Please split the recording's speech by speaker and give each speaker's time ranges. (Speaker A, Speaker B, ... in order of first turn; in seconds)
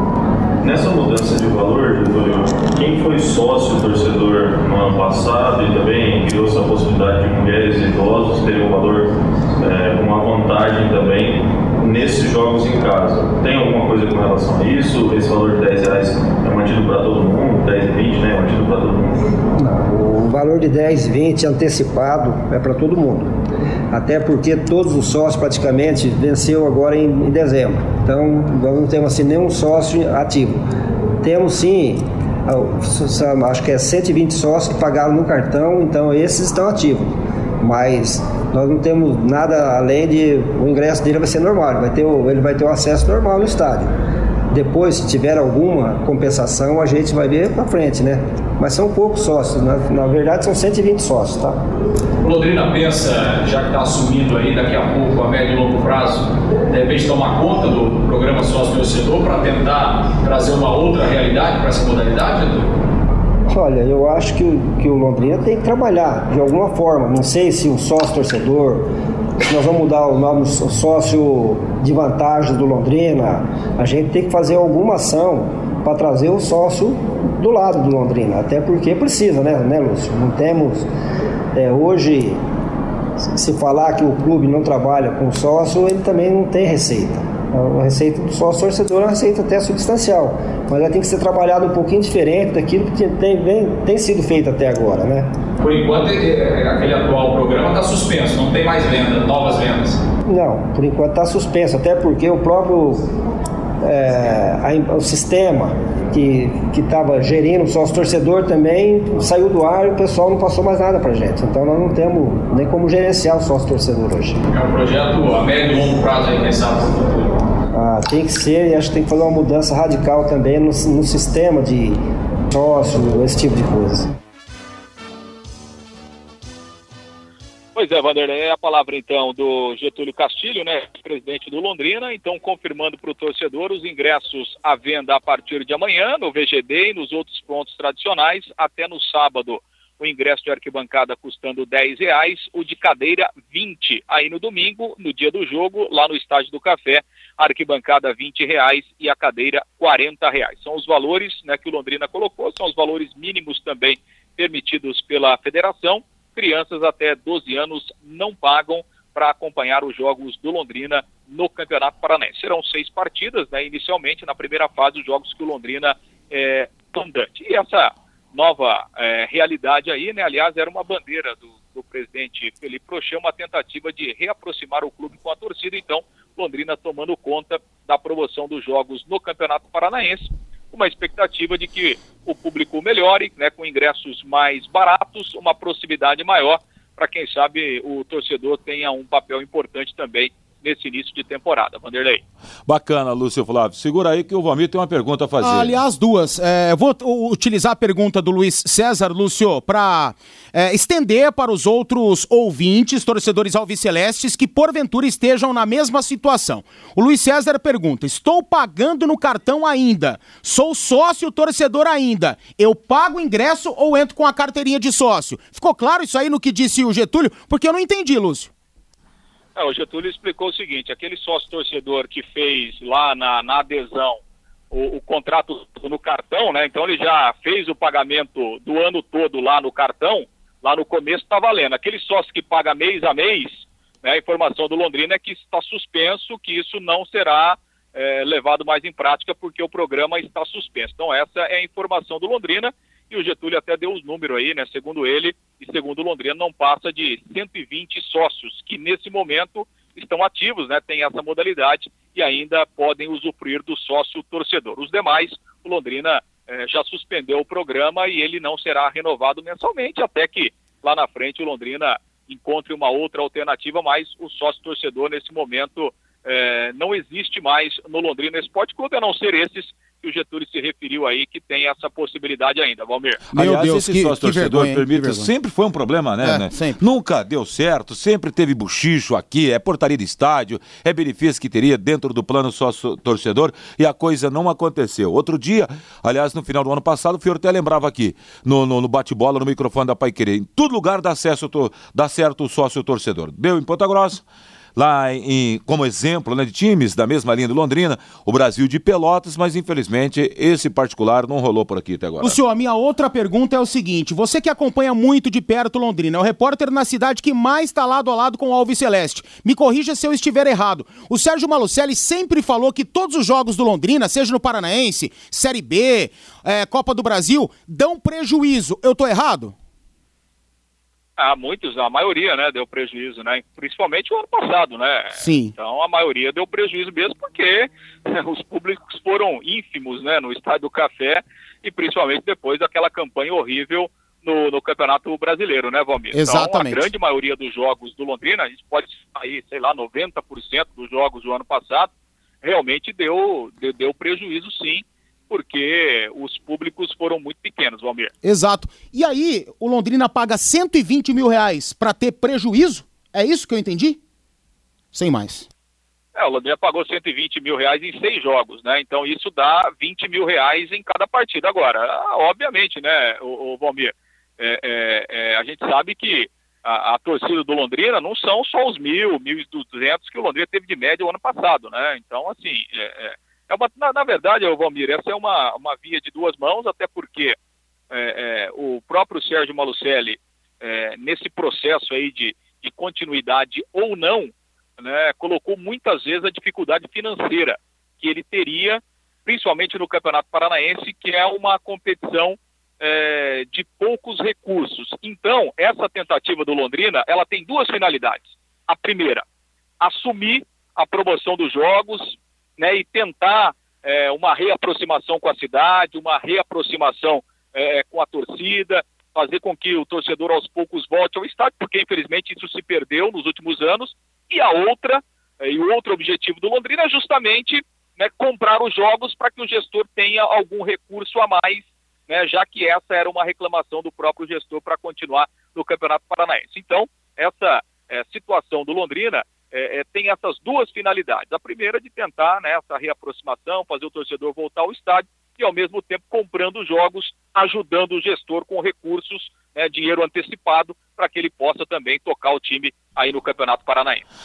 Speaker A: 0.6-19.3
Speaker B: 19.6-23.4, 23.9-30.6, 31.2-43.9, 44.5-51.6, 63.5-68.9, 69.4-80.9, 81.5-82.4, 83.3-95.3, 100.2-103.1, 103.8-114.4, 117.7-124.1
Speaker C: 52.2-62.7, 95.6-100.0, 114.5-117.3
Speaker D: 127.8-167.8, 168.3-180.2, 180.7-192.1, 219.6-224.1, 224.7-233.4, 234.0-273.1, 321.3-325.0, 325.6-327.7, 328.3-341.9, 342.4-348.1, 356.2-372.9, 373.5-377.3, 377.9-384.2, 384.8-399.2, 399.8-402.0, 402.6-444.0
Speaker E: 192.7-195.8, 273.4-294.2, 294.8-302.4
Speaker F: 195.4-218.5, 273.3-275.3, 276.2-276.8, 302.2-319.5, 325.2-325.5, 336.1-336.9, 348.2-354.0, 354.9-355.5